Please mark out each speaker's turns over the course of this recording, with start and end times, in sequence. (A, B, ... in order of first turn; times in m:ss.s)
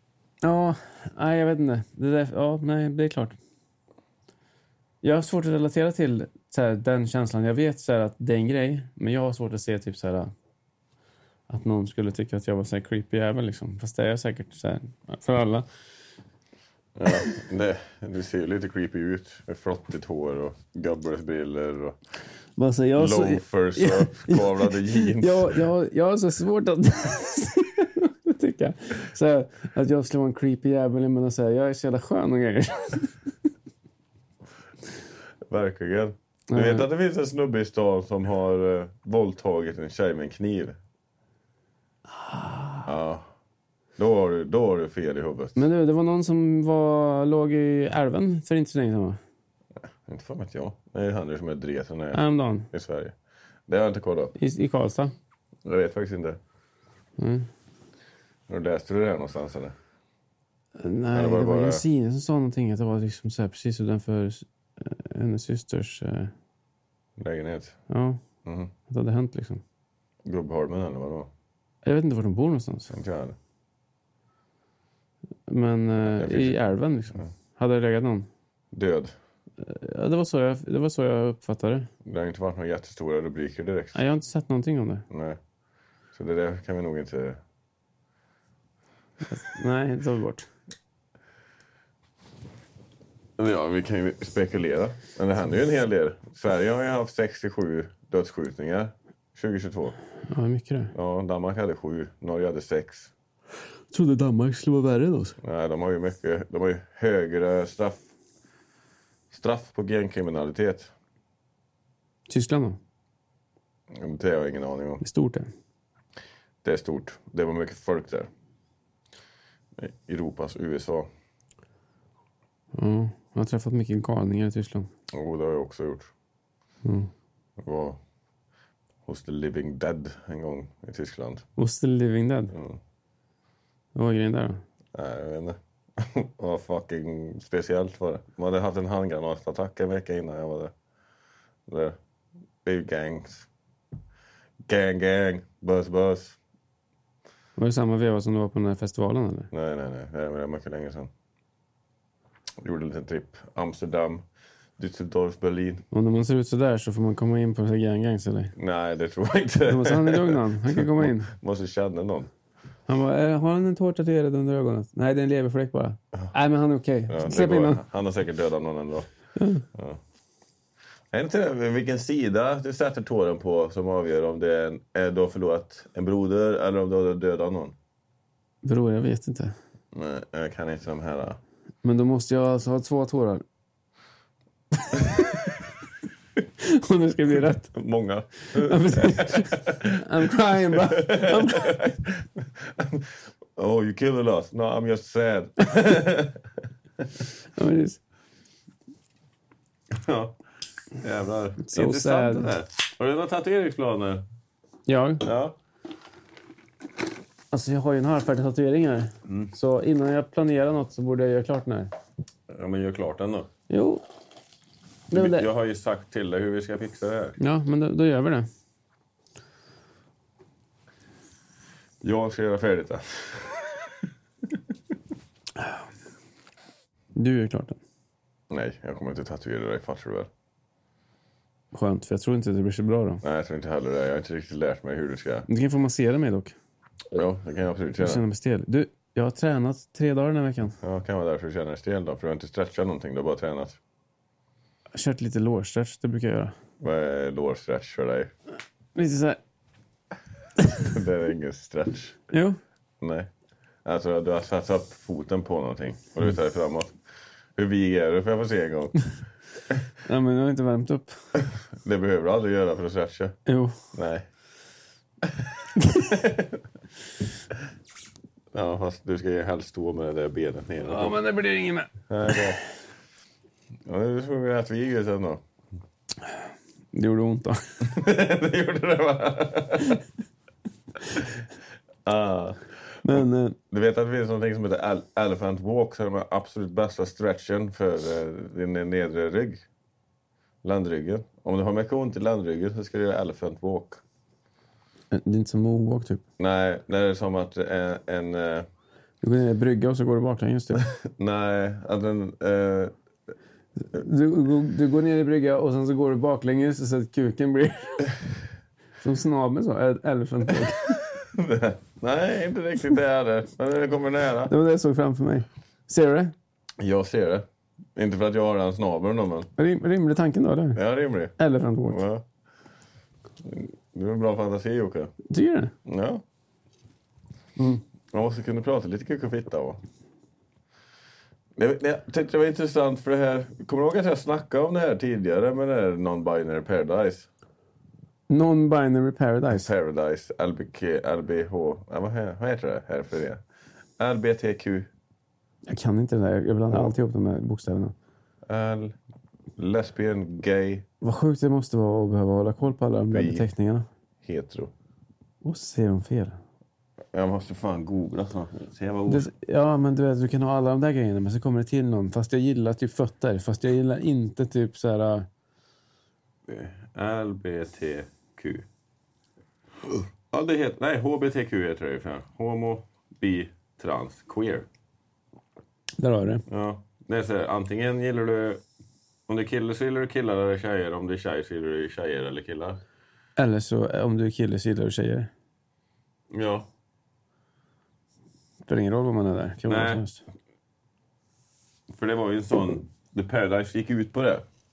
0:00.4-0:03.4 A
0:05.0-0:10.3 A
0:11.5-0:15.7 A
0:17.0-0:22.0 B
0:22.6-0:33.2 A
0:23.0-0:25.6 B
0:35.5-0:40.8 B
0:36.5-0:36.9 A
0:42.2-0:42.9 A
0:42.9-0:43.3 B
0:44.0-0:45.7 B
0:45.6-0:49.2 A
0:50.1-0:53.2 B
0:52.1-0:52.7 A
0:53.7-0:54.3 B
0:54.4-0:55.1 A
0:55.6-0:56.4 B
0:57.2-0:57.5 A
0:58.5-0:59.8 B
1:00.8-1:06.3 A
1:01.1-1:01.8 B
1:07.2-1:07.8 B
1:07.9-1:08.2 A
1:08.5-1:08.7 B
1:08.9-1:09.6 A
1:10.2-1:11.3 B
1:11.8-1:13.0 A
1:12.9-1:13.4 B
1:15.5-1:18.3 A
1:16.0-1:16.6 B
1:18.7-1:19.1 B
1:19.6-1:21.9 A
1:22.0-1:24.0 B
1:24.0-1:25.1 A
1:25.1-1:25.4 B
1:26.1-1:27.4 B
1:29.2-1:30.5 A
1:33.4-1:40.0 B
1:40.3-1:40.9 A
1:40.9-1:43.1 B
1:43.9-1:45.4 A
1:45.4-1:48.0 B
1:49.3-1:50.9 B
1:52.3-1:52.8 A
1:53.9-1:55.0 B
1:55.0-1:55.5 A
1:56.6-1:58.3 B
1:59.8-2:01.1 B
2:02.7-2:04.9 A
2:05.1-2:06.1 B
2:06.8-2:07.1 A
2:07.6-2:08.0 B
2:09.1-2:11.5 B
2:11.6-2:12.6 A
2:12.5-2:12.8 B
2:14.0-2:14.6 A
2:14.9-2:20.7 B
2:21.7-2:22.0 B
2:22.6-2:23.5 B
2:24.6-2:26.4 B
2:27.6-2:29.5 A
2:29.5-2:31.1 B
2:32.6-2:34.2 B
2:34.8-2:35.8 B
2:35.9-2:38.6 A
2:38.6-2:42.3 B
2:39.7-2:41.3 A
2:42.9-2:47.8 A
2:47.1-2:49.1 B
2:49.4-2:49.6 A
2:49.7-2:50.0 B
2:51.1-2:57.8 B
2:58.6-2:59.6 A
2:59.9-3:01.4 B
3:01.8-3:03.4 A
3:06.6-3:07.8 A
3:07.7-3:16.4 B
3:08.5-3:11.8 A
3:17.6-3:18.0 A
3:19.9-3:20.4 B
3:21.0-3:24.2 B
3:21.6-3:22.5 A
3:24.9-3:25.2 A
3:25.2-3:25.6 B
3:27.5-3:31.9 A
3:32.5-3:33.5 B
3:33.7-3:34.0 A
3:35.1-3:35.5 A
3:35.1-3:37.4 B
3:37.4-3:38.5 A
3:42.0-3:43.8 B
3:47.2-3:47.8 A
3:48.5-3:50.3 B
3:51.7-3:53.2 A
3:53.2-3:55.5 B
3:55.5-3:56.6 A
3:57.1-3:58.2 B
3:58.0-4:00.8 A
4:00.8-4:03.8 B
4:04.9-4:06.6 A
4:06.8-4:08.3 B
4:09.0-4:09.4 A
4:10.8-4:12.2 B
4:12.3-4:12.6 A
4:13.0-4:13.3 B
4:13.8-4:16.9 B
4:17.6-4:19.0 B
4:20.0-4:21.2 A
4:21.4-4:23.4 B
4:23.5-4:23.8 A
4:23.9-4:24.3 B
4:25.2-4:26.6 B
4:28.5-4:31.2 B
4:30.8-4:32.5 A
4:32.1-4:32.6 B
4:33.9-4:35.4 B
4:36.9-4:37.8 A
4:37.8-4:40.0 B
4:42.0-4:49.6 B
4:43.0-4:43.6 A
4:50.6-4:54.0 B
4:55.1-4:56.2 A
4:56.4-4:58.7 B
4:59.2-5:00.9 A
5:00.9-5:02.9 B
5:03.9-5:08.2 A
5:09.0-5:11.0 A
5:11.2-5:14.5 B
5:14.5-5:16.3 A
5:16.8-5:17.4 B
5:18.0-5:19.5 B
5:19.6-5:20.8 A
5:20.8-5:21.4 B
5:21.4-5:22.0 A
5:21.9-5:22.2 B
5:23.4-5:25.1 B
5:25.3-5:25.7 A
5:25.8-5:26.2 B
5:27.6-5:27.8 A
5:28.1-5:29.8 B
5:31.6-5:37.3 B
5:38.3-5:39.7 A
5:39.5-5:43.4 B
5:44.0-5:44.9 B
5:45.7-5:47.9 A
5:48.5-5:49.0 B
5:49.6-5:50.8 B
5:51.0-5:53.9 A
5:53.1-5:53.5 B
5:54.2-5:54.7 B
5:55.4-5:56.4 A
5:57.1-5:59.3 B
5:59.1-6:05.3 A
6:06.5-6:08.7 B
6:09.8-6:14.7 B
6:16.0-6:16.4 A
6:16.5-6:18.6 B
6:19.3-6:22.8 B
6:23.4-6:25.3 A
6:26.3-6:26.7 B
6:28.7-6:30.2 A
6:29.7-6:30.0 B
6:31.9-6:34.4 B